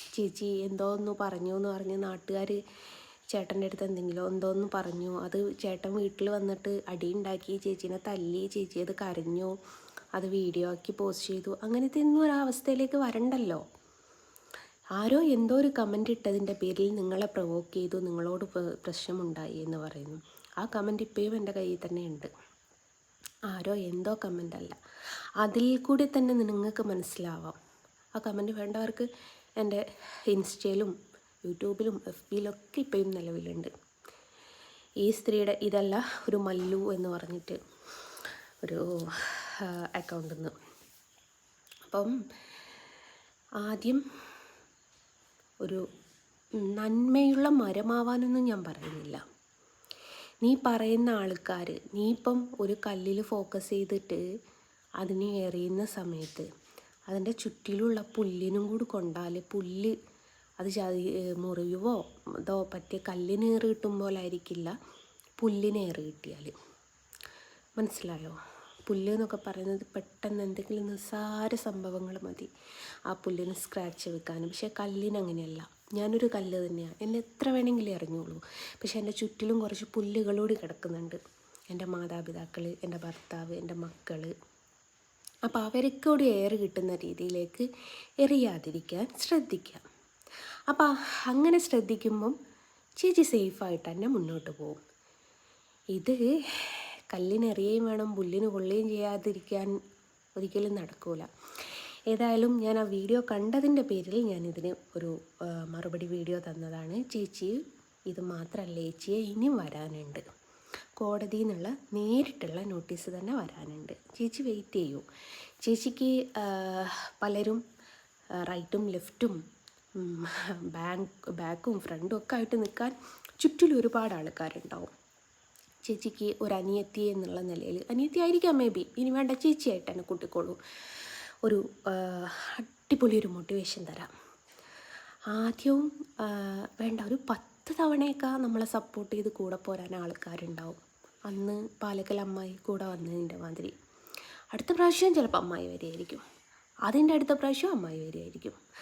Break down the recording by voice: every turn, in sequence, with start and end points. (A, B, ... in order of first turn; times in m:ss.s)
0:00.1-0:02.6 A
0:03.3-0:09.5 A
0:10.1-0:13.6 A
0:15.0-0:22.3 A
0:23.5-0:24.8 A
0:25.4-0:27.6 A
0:28.2-0:29.1 A
0:29.6-0:30.9 A
0:31.4-0:33.7 A
0:35.0-0:37.6 A
0:38.6-0:40.5 A
0:41.8-0:42.1 A
0:43.6-0:44.0 A
0:46.6-0:49.2 A
0:50.4-0:54.2 A
0:55.0-0:56.5 A
0:57.1-0:59.9 A
1:00.6-1:04.8 A
1:05.4-1:06.5 A
1:07.8-1:12.5 A
1:13.1-1:21.2 A
1:21.7-1:24.3 A
1:25.5-1:27.6 A
1:28.2-1:29.8 A
1:30.7-1:32.4 A
1:33.0-1:34.8 A
1:36.0-1:39.7 A
1:40.4-1:41.3 A
1:42.1-1:45.1 A
1:45.7-1:50.2 A
1:51.0-1:55.0 A
1:55.6-1:57.6 A
1:58.4-1:59.4 A
2:00.0-2:04.9 A
2:05.8-2:14.1 A
2:15.3-2:23.7 A
2:24.5-2:26.2 A
2:26.8-2:28.6 A